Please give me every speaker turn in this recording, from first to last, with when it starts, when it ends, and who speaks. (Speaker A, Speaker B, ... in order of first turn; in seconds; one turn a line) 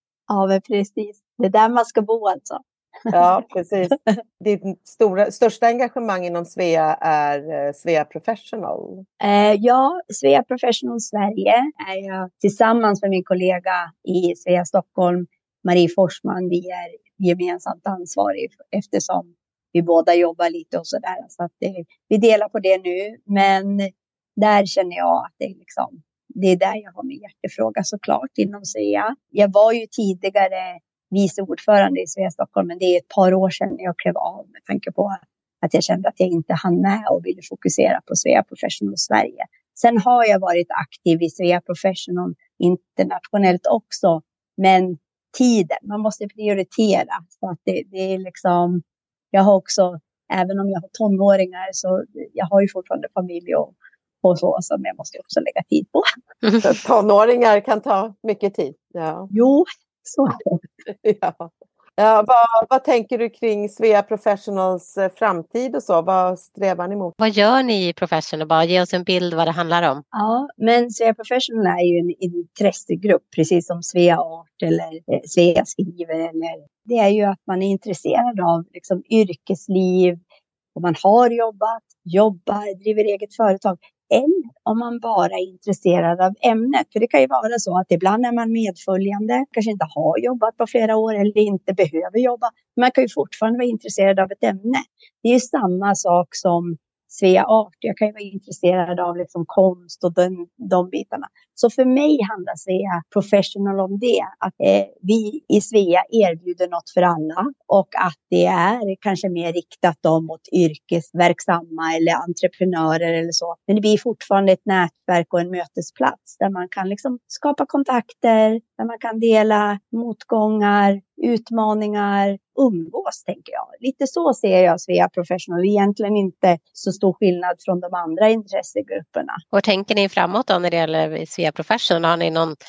Speaker A: 0.3-3.1
Speaker B: 3.1-9.0
Speaker A: 9.2-48.8
Speaker A: 49.3-56.1
Speaker B: 56.6-59.3
Speaker A: 59.3-60.6
Speaker B: 61.0-67.1
Speaker C: 67.2-70.0
Speaker A: 70.1-80.2
Speaker A: 80.7-129.4
Speaker C: 129.5-132.5